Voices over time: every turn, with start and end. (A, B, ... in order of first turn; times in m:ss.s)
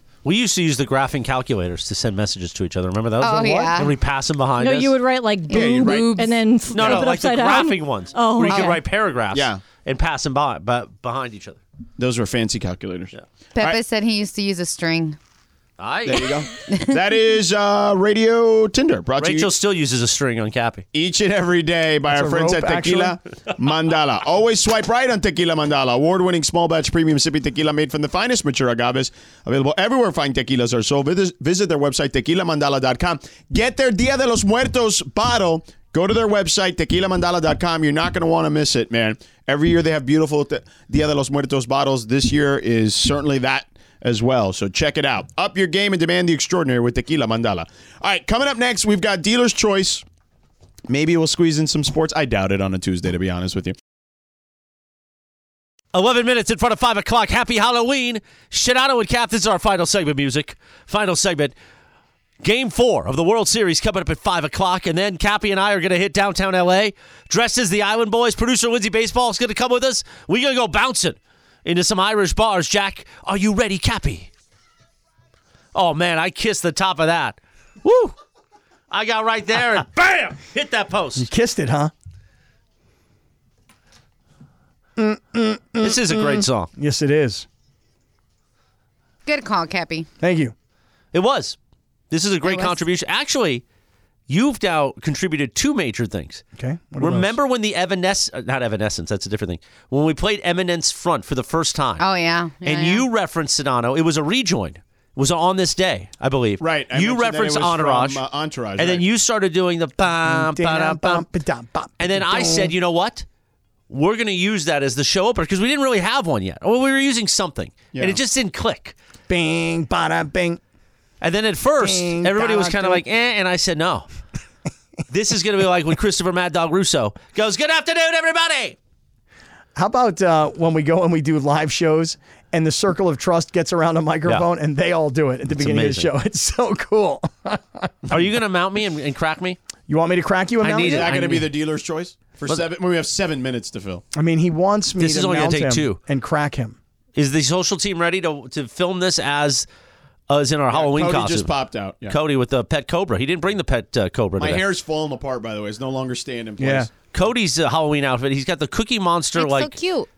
0:00.2-0:04.9 A
0:03.2-0:04.0 B
0:03.4-0:03.7 C
0:04.6-0:08.8 D
0:05.5-0:06.1 E
0:05.5-0:06.4 B
0:06.7-0:11.6 A
0:06.7-0:07.1 E
0:09.3-0:09.6 E
0:12.0-0:13.8 E
0:13.5-0:15.2 B
0:15.8-0:16.4 A
0:16.0-0:19.5 E
0:19.2-0:20.8 A
0:20.9-0:50.0 E
0:22.0-0:23.2 C
0:50.9-0:53.8 E
0:55.9-1:01.5 A
1:02.4-1:14.3 A
1:15.7-1:18.1 A
1:18.9-1:21.3 A
1:21.2-1:21.9 C
1:25.0-1:27.4 C
1:25.8-1:26.7 A
1:29.2-1:30.1 B
1:30.2-1:30.5 C
1:31.1-1:31.6 A
1:32.1-1:33.6 A
1:32.4-1:32.8 B
1:34.3-1:36.4 A
1:36.6-1:37.3 C
1:37.0-1:42.0 A
1:42.0-1:43.0 B
1:42.6-1:48.2 A
1:46.6-1:49.0 E
1:48.8-1:51.2 A
1:50.2-1:52.7 C
1:52.0-1:53.2 A
1:53.9-1:59.0 A
1:57.9-1:58.2 E
1:59.3-2:00.6 C
2:01.2-2:04.1 A
2:01.8-2:03.0 C
2:05.1-2:08.8 A
2:09.8-2:17.9 C
2:15.5-2:16.1 A
2:18.1-2:19.6 A
2:19.9-2:21.4 C
2:20.6-2:21.5 A
2:20.8-2:24.0 E
2:24.1-2:26.8 C
2:25.0-2:26.0 A
2:27.2-2:29.6 A
2:30.3-2:34.6 A
2:30.7-2:32.2 E
2:34.4-2:36.9 E
2:36.6-2:36.9 C
2:37.1-2:39.8 A
2:39.3-2:40.1 B